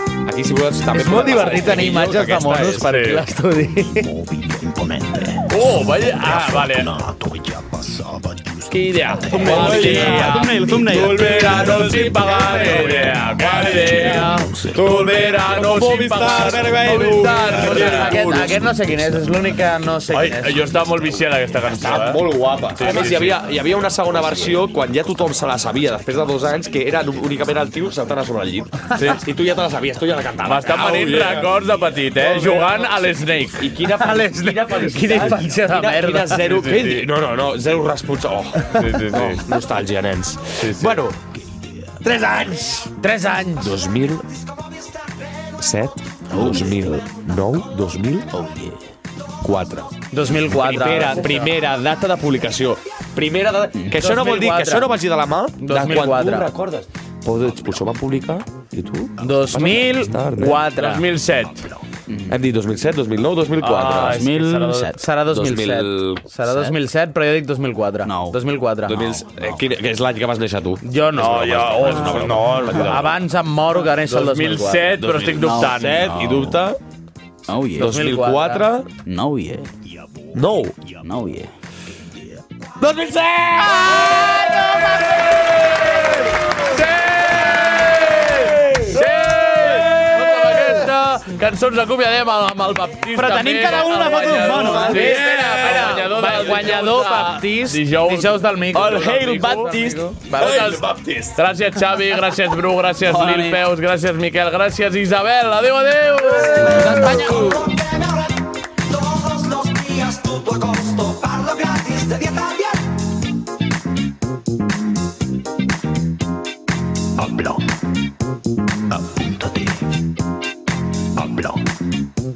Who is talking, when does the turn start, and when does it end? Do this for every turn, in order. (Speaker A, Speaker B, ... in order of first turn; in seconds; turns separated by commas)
Speaker A: 0.2-3.0, Speaker B: 0.9-4.1, Speaker C: 2.8-3.3, Speaker D: 3.6-10.2, Speaker C: 5.5-6.9, Speaker C: 8.7-18.6, Speaker A: 9.3-10.6, Speaker E: 9.4-11.5, Speaker D: 11.3-12.5, Speaker A: 12.5-13.0, Speaker D: 13.0-15.3, Speaker A: 14.8-18.4, Speaker B: 16.1-20.7, Speaker C: 20.1-22.2, Speaker A: 21.6-41.2, Speaker C: 22.7-23.4, Speaker C: 28.9-29.2, Speaker C: 30.4-33.7, Speaker B: 33.8-36.5, Speaker C: 36.3-37.0, Speaker C: 38.7-39.4, Speaker C: 40.6-41.0, Speaker A: 42.0-42.9, Speaker B: 43.0-43.8, Speaker A: 43.6-44.4, Speaker A: 45.6-48.3, Speaker E: 46.3-46.7, Speaker A: 49.4-60.6, Speaker B: 50.1-51.5, Speaker B: 53.9-54.9, Speaker B: 55.6-56.5, Speaker B: 59.2-61.1, Speaker C: 60.7-61.7, Speaker D: 61.3-61.8, Speaker E: 62.1-62.3, Speaker A: 62.3-64.3, Speaker C: 63.6-64.9, Speaker E: 64.1-64.9, Speaker B: 64.7-69.2, Speaker A: 65.3-66.7, Speaker E: 68.0-68.4, Speaker A: 68.9-73.2, Speaker B: 70.8-75.7, Speaker C: 71.2-72.7, Speaker C: 74.0-76.2, Speaker A: 75.0-76.8, Speaker E: 77.5-78.0, Speaker A: 77.8-78.9, Speaker B: 77.8-78.7, Speaker E: 79.0-79.7, Speaker A: 80.3-80.8, Speaker E: 81.0-81.5, Speaker A: 82.8-84.4, Speaker B: 83.9-84.8, Speaker C: 84.3-85.0, Speaker A: 85.4-85.7, Speaker C: 85.7-107.2, Speaker A: 88.5-90.4, Speaker B: 93.1-100.8, Speaker E: 93.6-95.0, Speaker A: 94.5-96.6, Speaker A: 100.3-101.4, Speaker B: 103.0-103.6, Speaker B: 106.5-107.7, Speaker D: 107.4-108.1, Speaker D: 109.0-112.7, Speaker D: 117.2-117.6, Speaker D: 118.9-119.9, Speaker D: 121.1-121.6